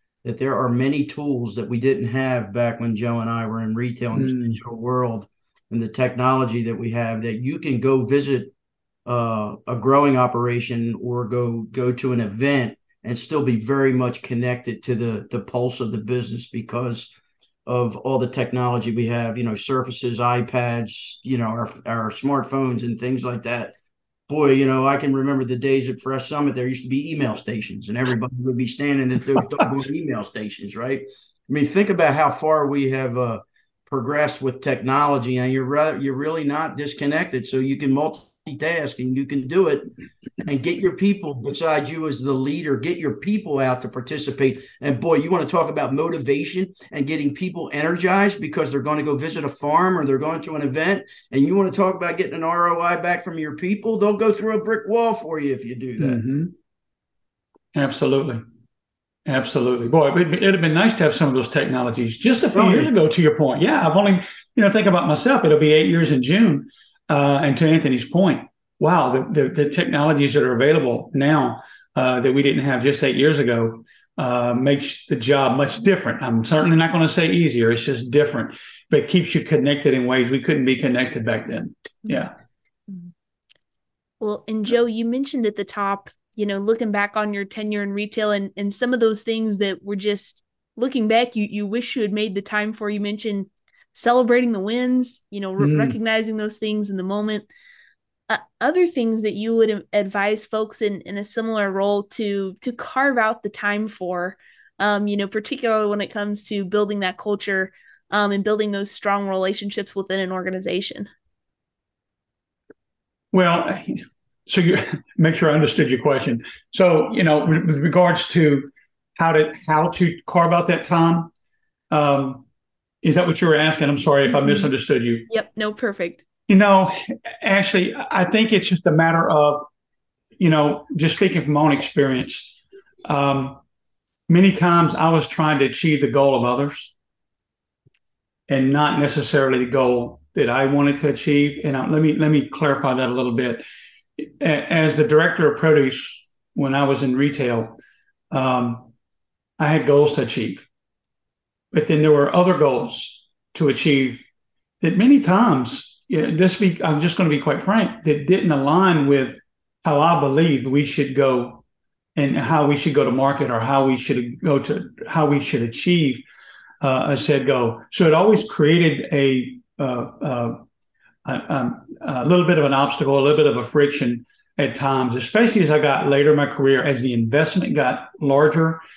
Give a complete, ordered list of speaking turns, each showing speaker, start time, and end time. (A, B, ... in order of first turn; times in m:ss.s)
0:00.2-0:08.5 A
0:04.1-0:04.6 B
0:09.0-0:17.1 A
0:17.6-0:23.7 A
0:24.3-0:39.9 A
0:40.4-0:56.2 A
0:56.0-0:56.5 B
0:57.7-0:58.4 B
0:59.2-1:22.3 B
1:02.5-1:02.9 A
1:24.2-1:37.5 C
1:35.6-1:35.9 B
1:38.3-1:51.1 C
1:53.3-2:01.3 B
2:01.9-2:02.4 B
2:03.0-2:05.3 B
2:05.3-2:06.2 C
2:06.5-2:09.6 B
2:10.4-2:13.6 B
2:14.3-2:16.9 B
2:18.5-2:23.6 B
2:24.2-2:27.8 B
2:28.3-2:28.9 B
2:29.6-2:30.7 B
2:31.7-2:34.2 B
2:34.8-2:41.6 B
2:42.1-2:46.2 B
2:46.8-2:50.6 B
2:51.2-2:58.8 B